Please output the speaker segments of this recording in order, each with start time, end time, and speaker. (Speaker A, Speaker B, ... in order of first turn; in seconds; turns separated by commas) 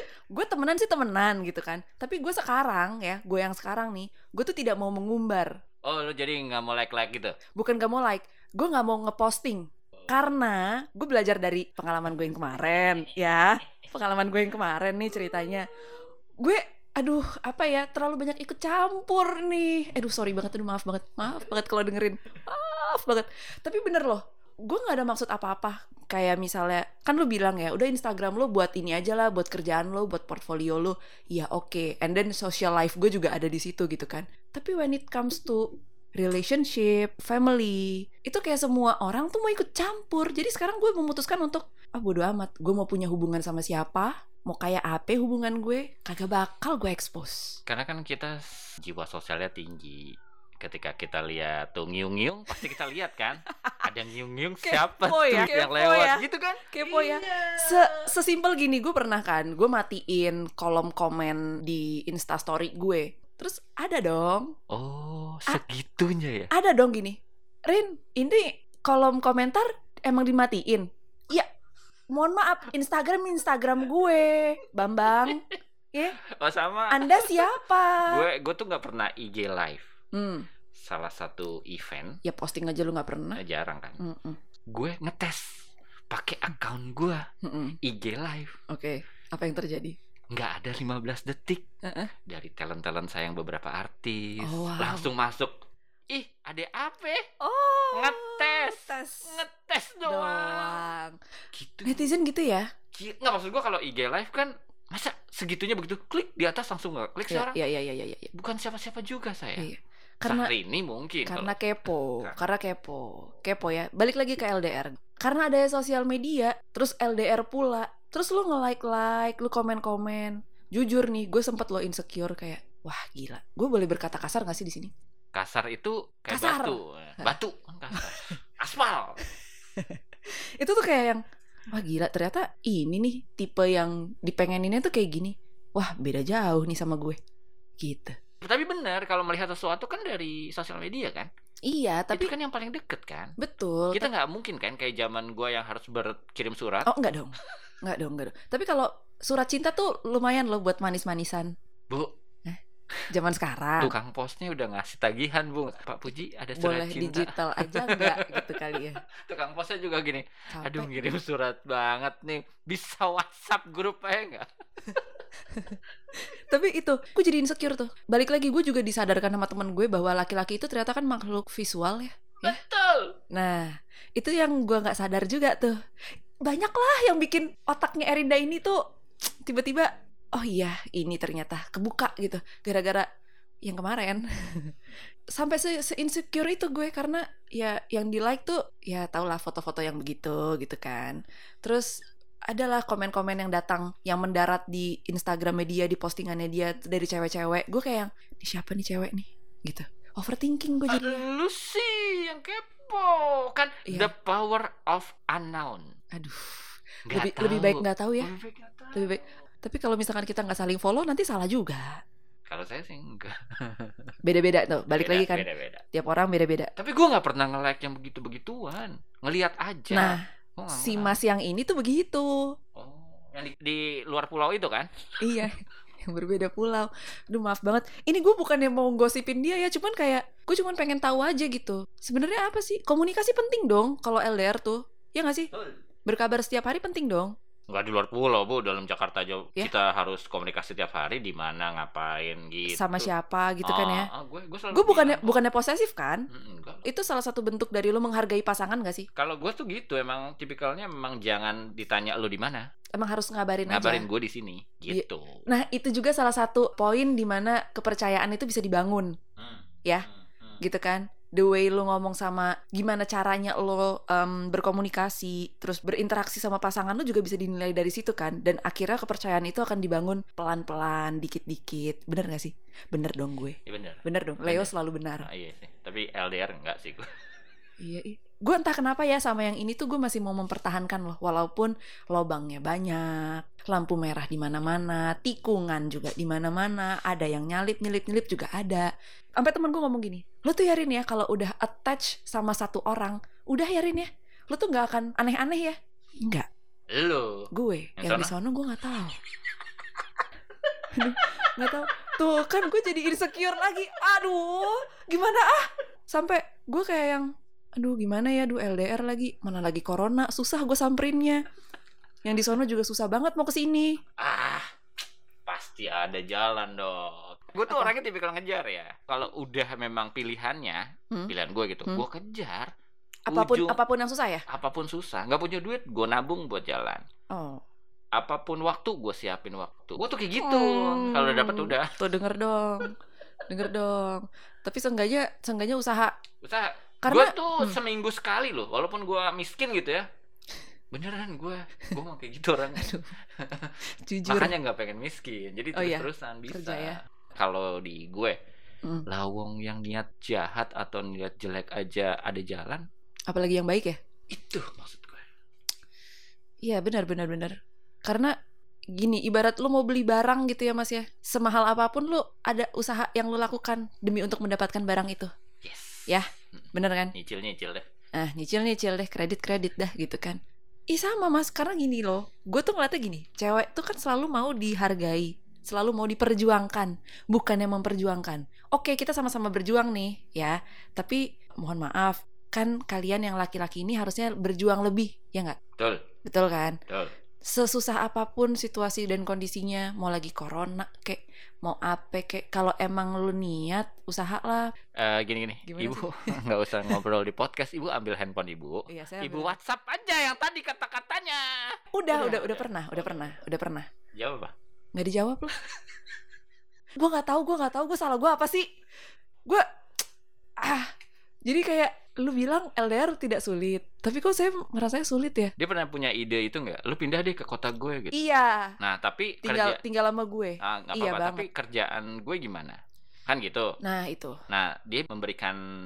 Speaker A: 0.3-5.5, Speaker B: 5.8-7.4, Speaker A: 7.6-15.7, Speaker A: 16.4-47.6, Speaker B: 47.7-58.1, Speaker A: 53.5-53.9, Speaker A: 54.6-64.5, Speaker B: 64.7-66.5, Speaker A: 66.5-71.5, Speaker A: 72.1-76.2, Speaker B: 75.2-75.5, Speaker B: 76.2-79.9, Speaker A: 76.9-78.2, Speaker A: 80.1-80.5, Speaker B: 80.8-82.2, Speaker A: 82.2-83.4, Speaker B: 83.4-84.0, Speaker A: 84.0-84.4, Speaker B: 84.7-87.2, Speaker A: 87.4-87.8, Speaker B: 87.8-88.5, Speaker A: 88.7-90.0, Speaker B: 90.3-91.6, Speaker A: 91.8-92.1, Speaker B: 92.3-95.6, Speaker A: 94.4-95.1, Speaker B: 96.1-97.3, Speaker A: 97.4-99.4, Speaker B: 97.9-100.9, Speaker A: 100.1-101.2, Speaker B: 101.5-102.1, Speaker A: 101.9-102.7, Speaker B: 102.9-107.6, Speaker A: 107.3-108.3, Speaker B: 108.3-109.7, Speaker A: 109.6-110.5, Speaker B: 110.3-111.5, Speaker A: 111.3-124.9, Speaker B: 125.3-129.2, Speaker A: 126.3-127.3, Speaker A: 128.0-128.3, Speaker A: 129.8-137.2, Speaker A: 137.8-138.2, Speaker B: 138.4-141.3, Speaker A: 141.7-142.3, Speaker B: 142.1-143.3, Speaker A: 143.4-144.1, Speaker B: 143.9-146.9, Speaker A: 146.9-151.5, Speaker A: 153.1-153.9, Speaker B: 153.8-165.0, Speaker A: 156.6-159.0, Speaker A: 160.5-161.1, Speaker A: 165.5-172.6, Speaker B: 172.4-173.2, Speaker A: 173.3-175.8, Speaker A: 176.4-178.8, Speaker A: 179.4-183.1, Speaker A: 183.6-184.8, Speaker A: 185.3-201.2, Speaker B: 200.9-205.9, Speaker A: 206.2-208.3, Speaker B: 207.1-209.2, Speaker A: 208.9-212.0, Speaker B: 212.5-214.2, Speaker A: 214.3-216.7, Speaker B: 214.9-215.8, Speaker B: 216.8-221.2, Speaker A: 219.9-222.3, Speaker B: 222.8-225.5, Speaker A: 225.2-235.5, Speaker A: 236.1-237.3, Speaker B: 237.7-243.1, Speaker A: 242.7-244.1, Speaker B: 243.6-245.4, Speaker A: 244.7-246.3, Speaker B: 246.3-246.9, Speaker A: 246.9-249.1, Speaker B: 249.2-252.7, Speaker A: 253.0-254.1, Speaker B: 253.7-255.4, Speaker A: 254.9-259.1, Speaker B: 259.4-260.6, Speaker A: 260.6-275.3, Speaker B: 273.7-274.7, Speaker B: 275.2-277.1, Speaker A: 277.8-296.5, Speaker B: 296.9-298.3, Speaker A: 297.5-299.2, Speaker A: 300.9-311.4, Speaker B: 301.2-301.8, Speaker A: 312.2-314.0, Speaker B: 314.2-314.7, Speaker B: 315.5-322.7, Speaker B: 323.3-323.8, Speaker A: 323.3-324.4, Speaker B: 324.5-327.0, Speaker A: 327.3-327.6, Speaker B: 328.1-332.0, Speaker A: 330.4-336.1, Speaker B: 336.4-340.1, Speaker A: 337.0-337.8, Speaker B: 340.9-348.4, Speaker A: 342.7-343.1, Speaker A: 344.1-344.5, Speaker A: 345.8-347.0, Speaker B: 349.1-352.9, Speaker A: 353.3-354.0, Speaker B: 354.3-355.2, Speaker A: 356.6-358.3, Speaker A: 358.9-365.3, Speaker B: 365.6-367.9, Speaker A: 366.1-367.1, Speaker A: 368.2-370.4, Speaker A: 370.9-385.6, Speaker B: 385.8-386.1, Speaker A: 386.2-386.8, Speaker A: 387.5-394.7, Speaker B: 395.0-403.4, Speaker A: 395.7-396.4, Speaker A: 398.9-399.6, Speaker A: 401.9-403.9, Speaker B: 404.1-404.5, Speaker A: 404.9-405.6, Speaker A: 407.0-408.7, Speaker A: 410.6-410.9, Speaker A: 411.5-415.5, Speaker B: 415.6-418.2, Speaker A: 418.1-418.8, Speaker B: 418.8-419.8, Speaker A: 419.4-421.5, Speaker B: 420.6-423.8, Speaker A: 423.8-424.4, Speaker B: 424.5-425.6